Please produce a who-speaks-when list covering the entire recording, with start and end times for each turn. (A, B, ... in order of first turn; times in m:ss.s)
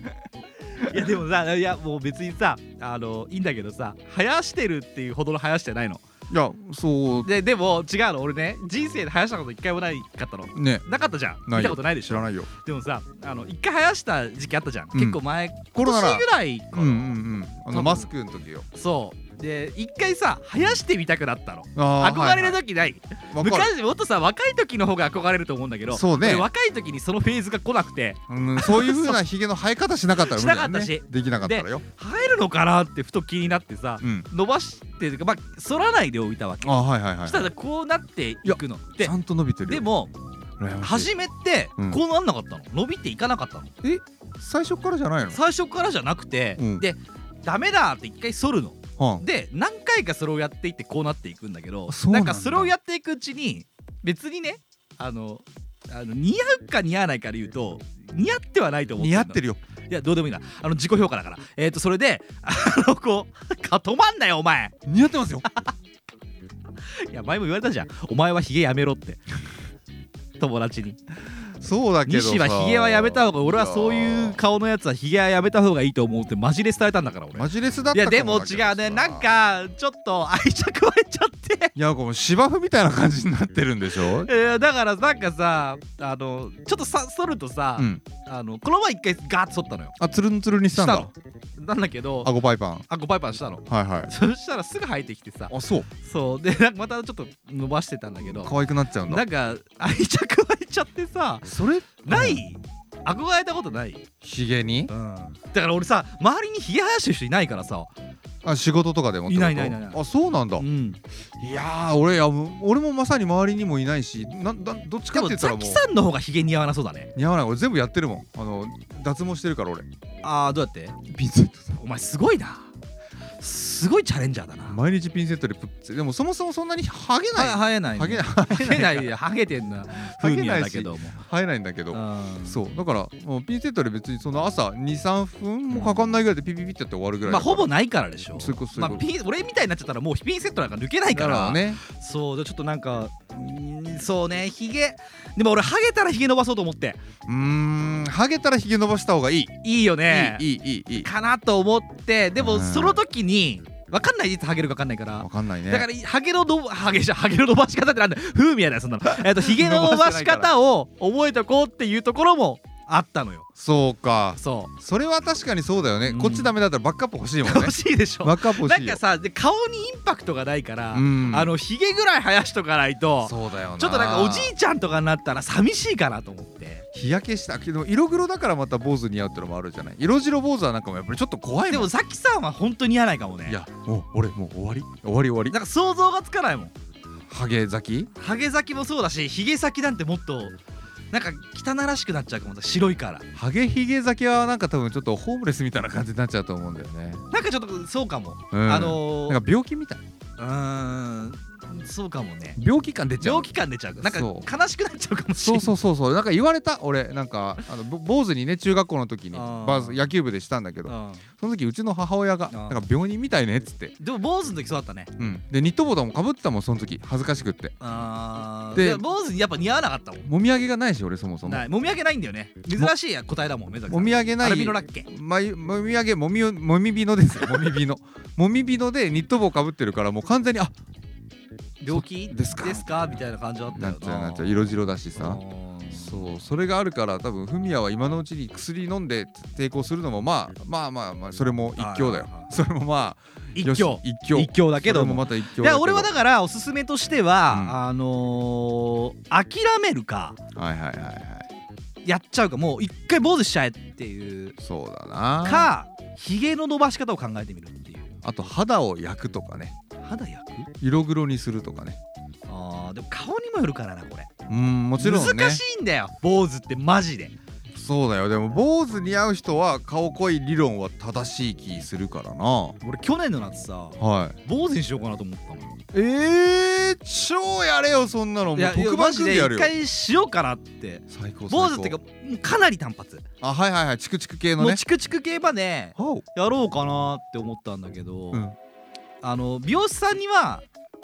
0:00.8-0:06.0 A
0:06.3-0:07.3 B
0:07.2-0:18.1 A
0:10.5-0:10.8 B
0:11.5-0:12.5 B
0:14.9-0:15.2 B
0:15.7-0:18.6 B
0:18.7-0:29.2 A
0:21.8-0:22.6 B
0:23.3-0:23.7 B
0:25.9-0:26.5 B
0:28.3-0:31.8 B
0:30.2-0:40.1 A
0:34.0-0:34.3 B
0:36.6-0:37.5 B
0:38.4-0:39.9 B
0:40.6-0:41.1 B
0:40.8-0:43.8 A
0:43.8-0:45.4 B
0:45.3-1:04.8 A
0:46.6-0:46.8 B
0:49.0-0:49.2 B
0:51.9-0:52.7 B
0:59.0-0:59.6 B
1:04.8-1:05.5 B
1:05.5-1:05.7 A
1:06.8-1:09.2 A
1:10.4-1:11.0 A
1:11.6-1:14.4 B
1:12.0-1:21.7 A
1:17.3-1:19.3 B
1:21.8-1:24.3 B
1:23.9-1:30.0 A
1:27.8-1:28.0 B
1:30.0-1:31.1 B
1:30.7-1:32.3 A
1:32.2-1:32.8 B
1:32.9-1:38.5 A
1:33.7-1:34.1 B
1:35.5-1:35.9 B
1:38.2-1:39.2 B
1:39.1-1:44.1 A
1:41.4-1:42.4 B
1:44.2-1:44.9 B
1:44.9-1:47.9 A
1:48.4-1:50.6 B
1:49.3-1:50.0 A
1:50.6-1:51.0 A
1:51.4-1:55.8 B
1:55.1-1:57.1 A
1:57.1-1:59.9 B
2:00.2-2:01.0 A
2:01.1-2:01.8 B
2:01.8-2:02.7 A
2:03.4-2:04.8 A
2:04.7-2:09.1 B
2:07.3-2:11.2 A
2:10.2-2:17.7 B
2:11.9-2:12.6 A
2:15.7-2:16.2 A
2:17.2-2:27.0 A
2:18.3-2:19.1 B
2:21.1-2:21.8 B
2:27.3-2:31.1 B
2:29.6-2:30.4 A
2:31.0-2:43.5 A
2:32.4-2:33.0 B
2:35.2-2:35.9 B
2:39.1-2:40.5 B
2:43.6-2:49.0 B
2:44.4-2:44.7 A
2:46.0-2:46.5 A
2:47.4-2:56.8 A
2:50.9-2:51.5 B
2:53.2-2:54.5 B
2:56.9-3:01.9 B
3:01.7-3:03.6 A
3:03.4-3:05.6 B
3:05.5-3:06.7 A
3:07.3-3:08.1 B
3:08.2-3:10.6 A
3:11.1-3:13.3 A
3:13.3-3:17.2 B
3:17.3-3:19.4 A
3:18.5-3:20.0 B
3:20.4-3:22.6 A
3:22.6-3:24.5 B
3:23.2-3:25.7 A
3:25.4-3:34.0 B
3:29.3-3:30.1 A
3:30.8-3:31.3 A
3:32.5-3:32.8 A
3:34.0-3:35.1 A
3:35.2-3:37.7 B
3:37.8-3:40.2 A
3:38.7-3:39.0 B
3:40.2-3:41.6 B
3:41.4-3:45.1 A
3:43.9-3:50.7 B
3:51.8-3:56.4 A
3:51.9-3:53.2 B
3:53.7-3:55.4 B
3:55.9-4:06.1 B
4:01.8-4:02.5 A
4:03.6-4:10.4 A
4:07.5-4:07.8 B
4:10.5-4:11.5 B
4:12.0-4:14.5 A
4:14.6-4:15.7 B
4:15.4-4:18.2 A
4:18.2-4:19.7 B
4:20.0-4:20.7 A
4:20.8-4:22.0 B
4:22.5-4:24.3 A
4:24.5-4:25.6 B
4:25.0-4:27.3 A
4:27.7-4:32.8 B
4:32.8-4:35.9 A
4:34.0-4:34.4 B
4:35.9-4:39.7 B
4:38.6-4:43.3 A
4:41.1-4:42.0 B
4:43.4-4:44.8 B
4:44.6-4:48.4 A
4:46.0-4:46.2 B
4:48.3-4:48.6 B
4:49.2-4:50.6 A